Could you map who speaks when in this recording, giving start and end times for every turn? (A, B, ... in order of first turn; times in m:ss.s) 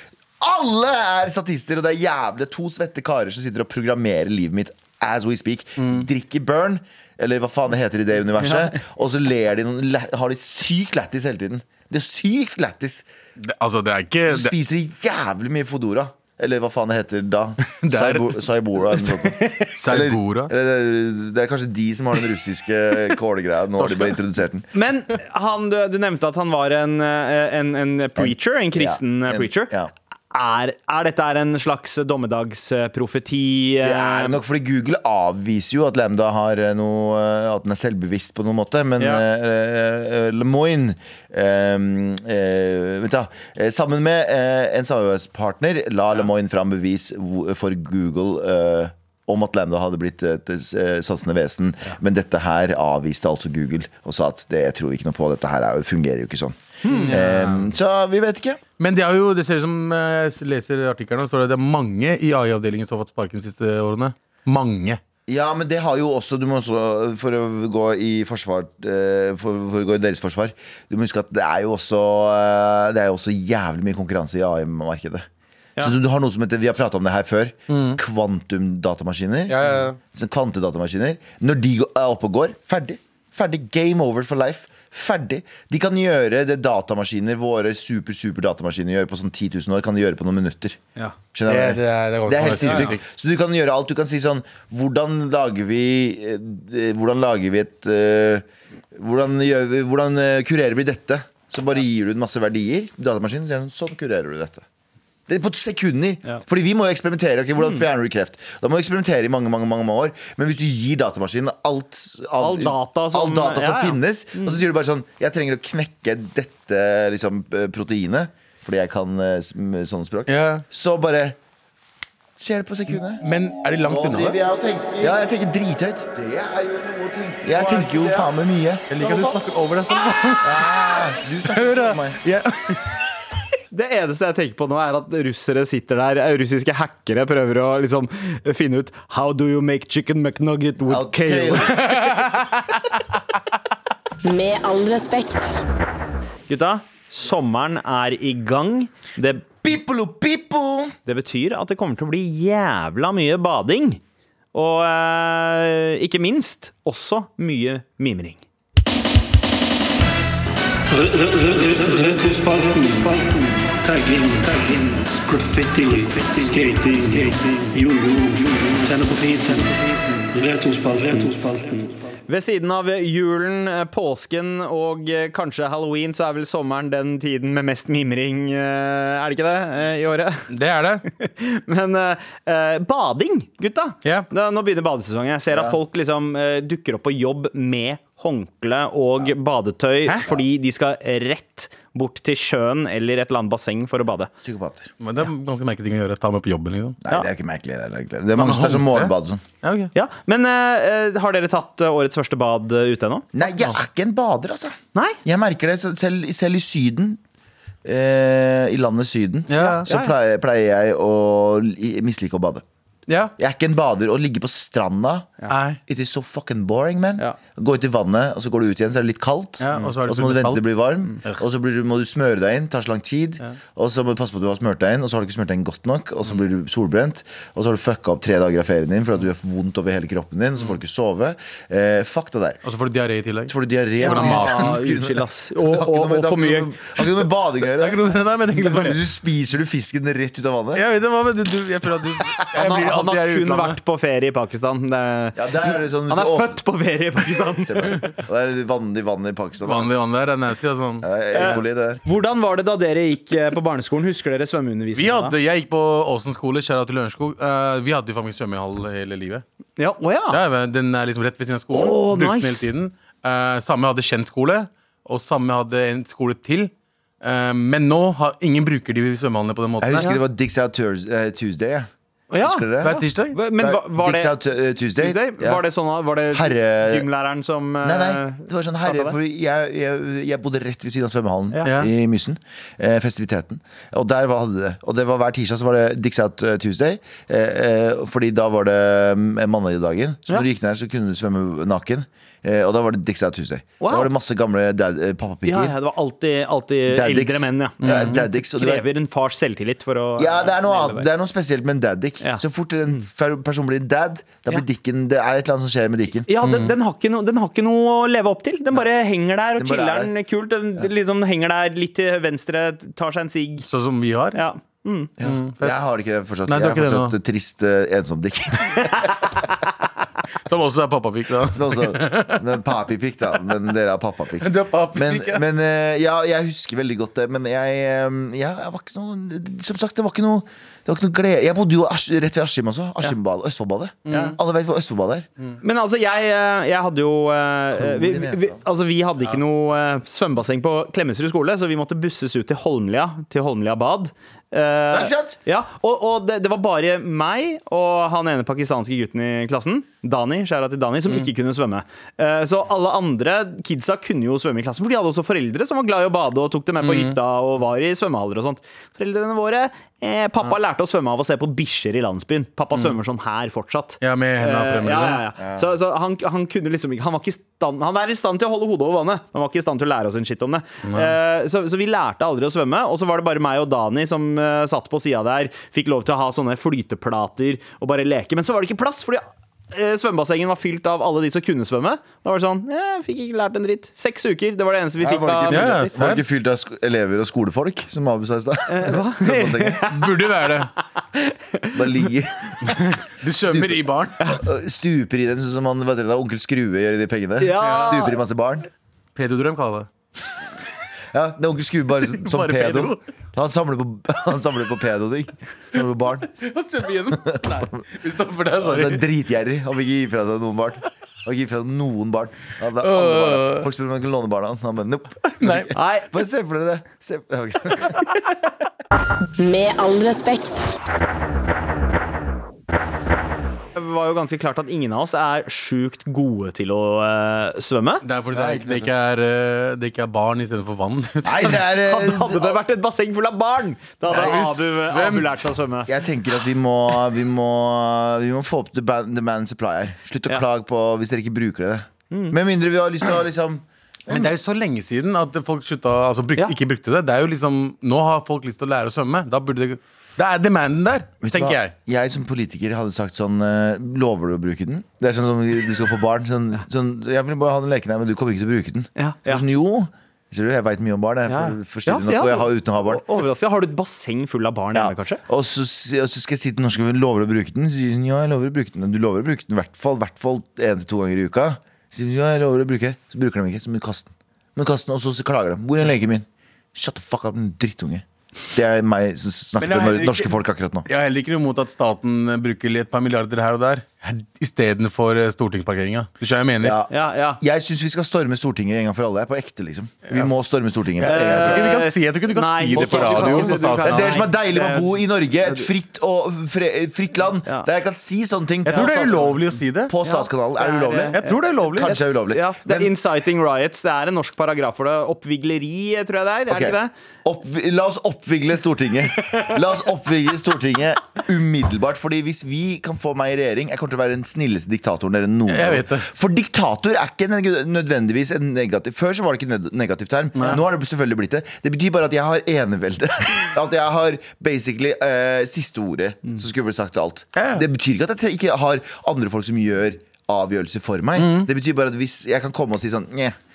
0:00.4-0:13.0 A
0:05.8-0:06.0 B
0:08.4-0:08.7 C
0:13.4-0:14.5 B
0:14.3-0:24.6 A
0:17.7-0:18.4 B
0:19.7-0:20.5 B
0:23.8-0:24.2 B
0:24.7-0:29.7 C
0:28.2-0:29.9 A
0:30.3-0:34.4 C
0:33.8-0:58.6 A
0:56.8-0:57.1 C
0:56.9-0:57.7 B
0:58.8-1:05.0 B
1:05.3-1:15.2 A
1:15.8-1:30.8 A
1:17.7-1:18.0 B
1:19.5-1:20.0 B
1:31.3-1:44.6 A
1:31.4-1:33.0 B
1:45.3-2:01.4 A
1:52.4-1:54.6 C
2:00.3-2:00.6 B
2:02.4-2:03.2 A
2:03.2-2:04.4 B
2:03.8-2:09.4 A
2:07.5-2:08.2 C
2:08.9-2:13.0 B
2:10.4-2:12.2 A
2:13.7-2:21.9 C
2:20.9-2:22.0 A
2:21.8-2:22.6 B
2:24.2-2:25.6 D
2:26.5-2:29.5 C
2:29.6-2:30.9 A
2:31.0-2:34.0 C
2:34.5-2:38.4 C
2:40.9-2:52.0 E
2:52.3-3:00.5 C
3:00.5-3:01.0 B
3:01.0-3:14.3 C
3:05.5-3:05.8 A
3:14.4-3:14.9 A
3:15.0-3:17.0 B
3:17.0-3:19.4 A
3:18.4-3:19.9 B
3:19.9-3:23.3 C
3:23.3-3:27.2 A
3:27.8-3:32.6 A
3:29.5-3:29.8 B
3:29.6-3:30.1 C
3:33.1-3:33.3 B
3:33.4-3:52.6 A
3:35.5-3:35.8 B
3:39.6-3:40.7 B
3:52.6-3:54.7 B
3:53.5-3:58.0 A
3:54.0-3:56.7 C
3:57.6-3:59.0 B
3:58.6-4:00.8 A
4:00.7-4:03.8 B
4:02.5-4:08.1 C
4:05.4-4:06.6 A
4:07.6-4:10.0 A
4:09.6-4:11.1 B
4:11.0-4:12.0 A
4:11.3-4:15.4 C
4:14.9-4:19.4 B
4:19.8-4:20.4 C
4:20.3-4:26.7 B
4:21.7-4:22.7 C
4:27.2-4:30.1 B
4:29.8-4:31.9 A
4:32.3-4:34.4 C
4:32.4-4:33.0 A
4:32.8-4:33.4 B
4:33.6-4:35.6 A
4:35.0-4:39.2 C
4:36.3-4:37.1 A
4:37.8-4:55.7 A
4:41.6-4:41.9 B
4:53.8-4:54.1 C
4:55.4-5:01.1 C
4:56.9-4:58.8 A
4:57.8-4:58.2 B
5:00.2-5:06.3 A
5:06.3-5:13.6 C
5:06.4-5:06.7 B
5:09.6-5:10.1 A
5:13.6-5:14.4 B
5:14.3-5:15.1 C
5:15.2-5:19.5 A
5:15.2-5:15.8 B
5:16.4-5:17.2 B
5:20.4-5:22.4 B
5:21.4-5:35.3 A
5:24.4-5:25.4 B
5:34.0-5:34.4 B
5:34.1-5:34.4 C
5:35.6-6:26.0 C
5:37.7-5:38.6 A
5:44.9-5:45.4 A
5:56.8-5:57.2 B
6:04.0-6:05.2 B
6:05.4-6:05.6 A
6:10.9-6:11.1 B
6:25.0-6:29.9 A
6:25.5-6:26.2 B
6:28.7-6:30.5 C
6:29.9-6:30.7 B
6:31.1-6:31.8 C
6:31.7-6:32.7 A
6:32.7-6:34.2 B
6:33.4-6:38.7 A
6:37.4-6:38.2 C
6:37.6-6:38.0 B
6:39.2-6:39.9 B
6:41.1-6:46.3 A
6:42.2-6:43.0 B
6:46.3-6:49.0 B
6:47.2-6:47.8 A
6:48.6-6:58.2 A
6:52.8-6:53.7 B
6:55.3-6:55.7 B
6:55.7-6:56.1 C
6:59.4-7:00.7 D
7:03.8-7:08.0 C
7:08.0-7:11.6 B
7:08.3-7:08.9 A
7:11.2-7:12.6 A
7:11.8-7:15.9 C
7:14.1-7:14.4 A
7:14.1-7:15.5 B
7:15.9-7:24.3 A
7:22.1-7:22.4 C
7:24.1-7:31.7 B
7:31.2-7:43.0 A
7:39.0-7:39.4 C
7:41.3-7:45.2 C
7:44.7-8:00.9 A
7:59.6-8:00.3 B
8:00.9-8:06.8 B
8:06.6-8:11.8 A
8:06.9-8:07.4 C
8:11.0-8:14.2 B
8:11.0-8:14.9 C
8:12.7-8:23.0 A
8:18.6-8:19.9 B
8:20.0-8:26.9 C
8:21.1-8:22.0 B
8:26.5-8:53.4 A
8:35.5-8:36.1 B
8:47.4-8:47.6 B
8:51.2-8:51.5 B